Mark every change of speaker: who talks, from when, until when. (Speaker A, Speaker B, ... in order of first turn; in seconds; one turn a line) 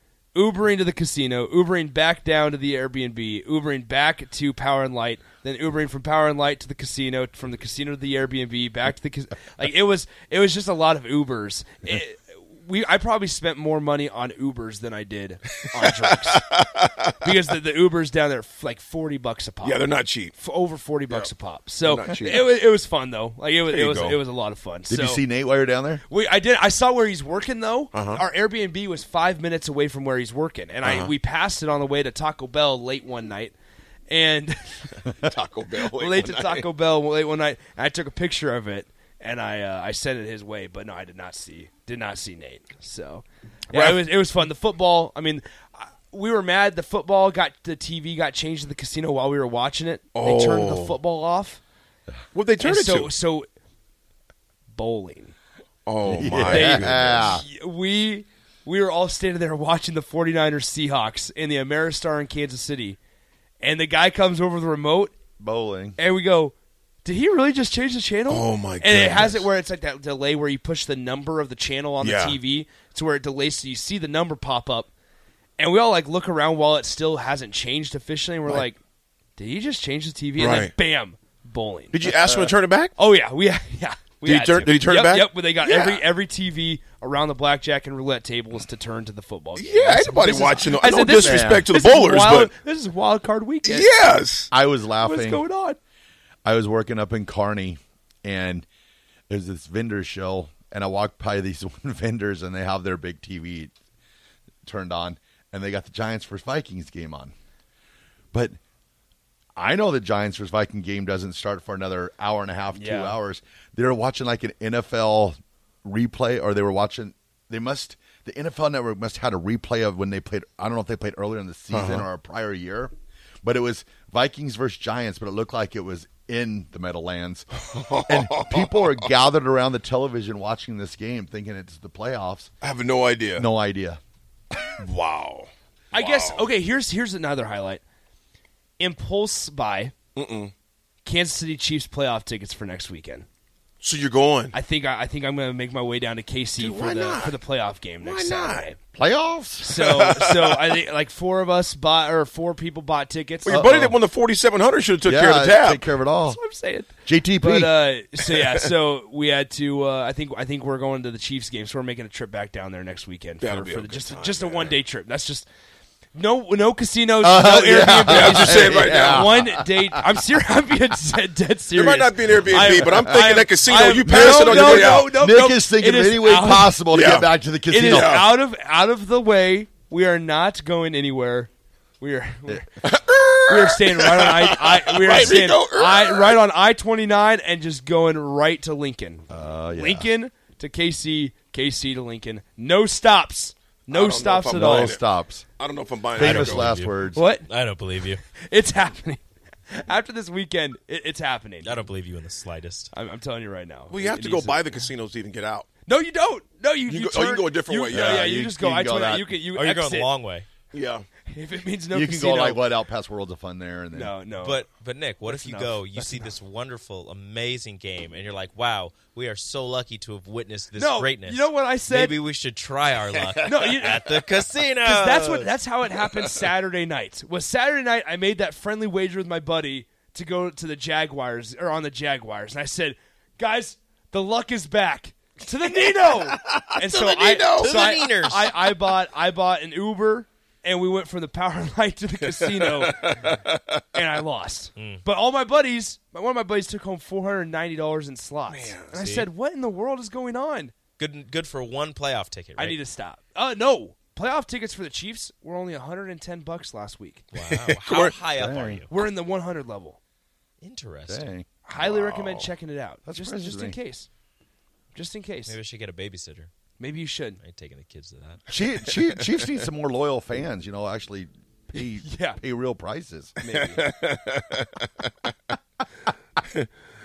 Speaker A: 0.3-16.4
Speaker B: 16.0-17.0
Speaker A: 17.2-25.2
Speaker B: 19.6-20.3
Speaker B: 21.9-22.5
Speaker B: 23.7-24.2
Speaker C: 24.9-26.0
Speaker A: 26.1-33.5
Speaker B: 27.9-28.2
Speaker B: 30.8-31.1
Speaker A: 34.1-34.9
Speaker B: 35.0-36.7
Speaker A: 36.0-51.6
Speaker B: 43.7-44.0
Speaker B: 50.1-51.0
Speaker B: 52.3-53.1
Speaker A: 52.6-53.5
Speaker A: 54.7-55.3
Speaker B: 55.9-57.4
Speaker C: 56.0-57.4
Speaker A: 56.4-63.0
Speaker A: 63.6-65.1
Speaker C: 65.4-66.0
Speaker A: 66.0-66.5
Speaker A: 67.0-74.9
Speaker B: 68.3-69.5
Speaker B: 72.0-72.4
Speaker A: 75.6-78.8
Speaker A: 79.4-93.9
Speaker B: 80.4-80.7
Speaker B: 81.9-82.9
Speaker B: 84.2-86.0
Speaker B: 89.5-92.5
Speaker C: 91.1-91.6
Speaker B: 93.6-94.5
Speaker C: 94.5-95.4
Speaker A: 95.0-95.8
Speaker C: 96.4-98.7
Speaker C: 99.3-103.7
Speaker C: 104.6-107.3
Speaker C: 109.6-122.9
Speaker A: 112.7-113.2
Speaker B: 121.7-122.0
Speaker C: 123.4-127.5
Speaker B: 127.6-129.1
Speaker C: 128.1-132.5
Speaker B: 132.6-133.5
Speaker C: 133.4-134.0
Speaker B: 134.8-136.4
Speaker A: 135.9-137.8
Speaker A: 138.8-139.9
Speaker B: 140.1-140.5
Speaker A: 141.0-143.3
Speaker B: 143.8-144.5
Speaker A: 144.5-148.8
Speaker B: 146.6-147.4
Speaker B: 148.0-148.7
Speaker C: 148.9-149.7
Speaker A: 149.6-153.6
Speaker B: 149.8-150.7
Speaker B: 153.5-156.0
Speaker C: 153.5-154.0
Speaker C: 155.1-156.4
Speaker A: 156.3-165.5
Speaker C: 157.0-157.7
Speaker B: 158.2-158.7
Speaker B: 163.4-164.8
Speaker A: 166.1-176.8
Speaker C: 167.2-169.6
Speaker B: 167.8-169.3
Speaker B: 171.7-175.1
Speaker C: 174.0-178.2
Speaker B: 176.9-178.4
Speaker A: 177.7-182.7
Speaker B: 182.8-186.4
Speaker A: 183.5-194.9
Speaker C: 189.3-190.1
Speaker B: 193.9-195.0
Speaker C: 194.5-195.4
Speaker B: 195.6-196.8
Speaker D: 196.2-198.2
Speaker C: 196.2-197.2
Speaker A: 197.1-197.5
Speaker A: 198.4-201.8
Speaker D: 201.6-202.9
Speaker A: 202.9-204.8
Speaker B: 203.9-205.7
Speaker A: 205.9-210.1
Speaker B: 206.9-208.3
Speaker C: 207.9-209.3
Speaker D: 209.4-210.5
Speaker B: 210.7-211.0
Speaker A: 211.3-212.7
Speaker C: 211.9-214.1
Speaker A: 213.9-214.7
Speaker D: 214.3-226.3
Speaker A: 215.2-216.3
Speaker A: 220.8-222.1
Speaker A: 223.5-224.2
Speaker A: 224.8-243.1
Speaker B: 235.6-238.3
Speaker D: 237.0-238.7
Speaker B: 242.5-243.8
Speaker A: 243.9-250.8
Speaker D: 244.8-245.0
Speaker B: 248.5-248.9
Speaker D: 248.9-249.3
Speaker D: 251.0-252.8
Speaker A: 252.6-257.2
Speaker D: 257.3-258.9
Speaker B: 257.4-258.1
Speaker C: 258.4-258.9
Speaker A: 258.9-260.0
Speaker D: 260.6-261.3
Speaker C: 261.1-261.5
Speaker A: 261.6-264.1
Speaker B: 261.8-262.5
Speaker C: 263.1-263.8
Speaker A: 264.9-265.6
Speaker D: 265.5-266.5
Speaker A: 266.8-267.4
Speaker D: 267.4-269.1
Speaker C: 268.5-273.3
Speaker A: 272.0-272.4
Speaker A: 273.4-273.9
Speaker B: 273.4-275.5